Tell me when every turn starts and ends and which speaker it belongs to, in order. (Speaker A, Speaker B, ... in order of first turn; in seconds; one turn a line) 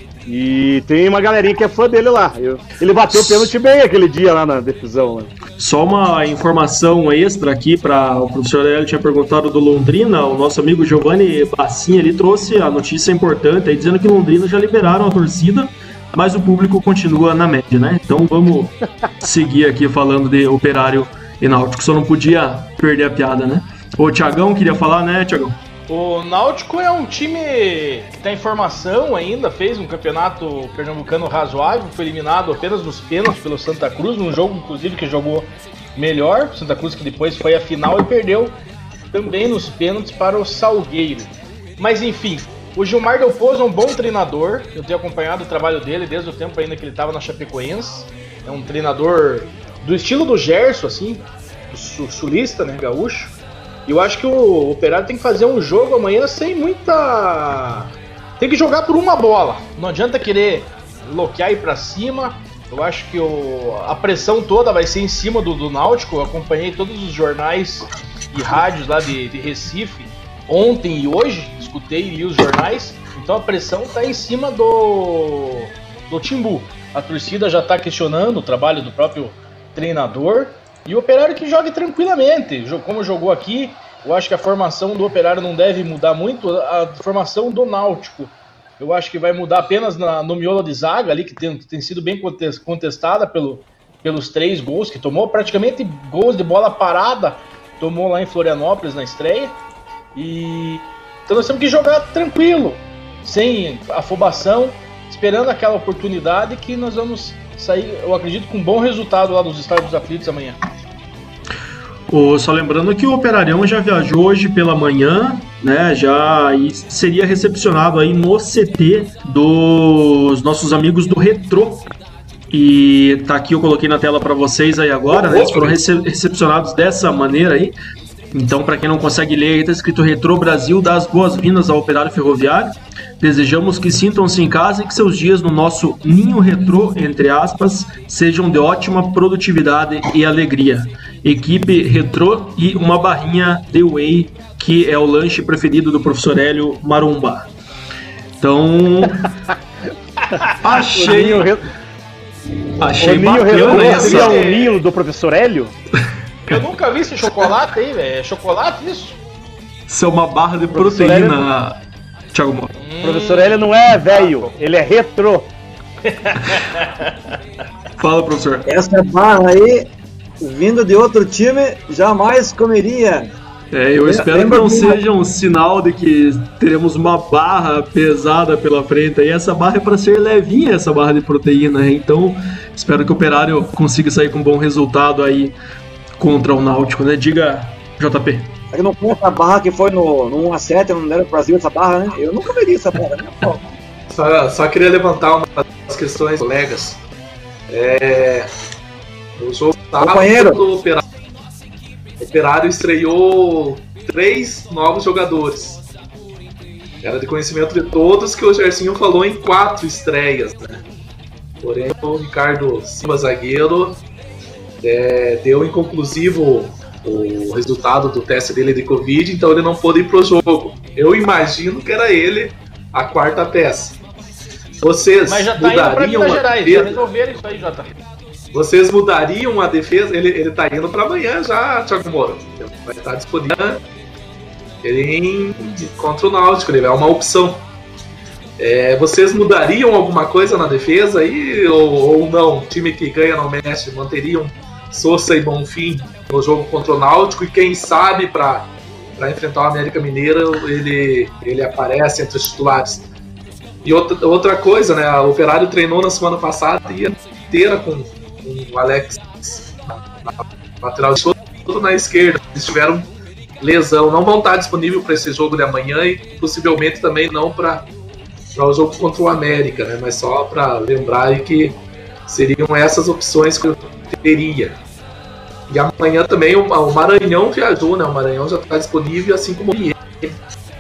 Speaker A: 0.3-5.3
Speaker B: 3.1-3.5
Speaker B: 5.6-25.6
Speaker C: 25.9-38.6
Speaker C: 39.1-53.4
Speaker C: 53.9-99.6
Speaker C: 100.2-110.6
Speaker B: 112.1-121.9
Speaker B: 122.5-127.8
Speaker D: 125.1-125.8
Speaker B: 128.3-147.5
Speaker B: 148.4-149.3
Speaker B: 150.6-151.5
Speaker A: 150.7-151.7
Speaker B: 152.8-154.5
Speaker A: 153.0-155.8
Speaker C: 153.5-154.8
Speaker C: 156.5-159.2
Speaker B: 159.9-161.8
Speaker A: 160.7-161.4
Speaker B: 162.3-162.7
Speaker C: 162.8-164.5
Speaker A: 163.0-165.5
Speaker C: 166.0-167.3
Speaker B: 168.0-168.7
Speaker E: 168.7-169.9
Speaker E: 170.4-173.3
Speaker B: 173.7-185.5
Speaker E: 174.1-175.0
Speaker B: 186.2-188.5
Speaker E: 188.7-193.6
Speaker D: 194.1-197.0
Speaker D: 197.7-198.5
Speaker D: 199.4-201.1
Speaker E: 200.0-200.6
Speaker D: 202.2-205.8
Speaker D: 207.0-210.8
Speaker D: 211.6-214.0
Speaker D: 214.8-224.0
Speaker D: 224.8-227.0
Speaker C: 225.3-227.9
Speaker D: 228.5-233.8
Speaker D: 234.8-237.6
Speaker D: 238.6-253.1
Speaker D: 253.8-263.1
Speaker D: 263.6-267.9
Speaker D: 268.6-274.8
Speaker D: 275.7-280.4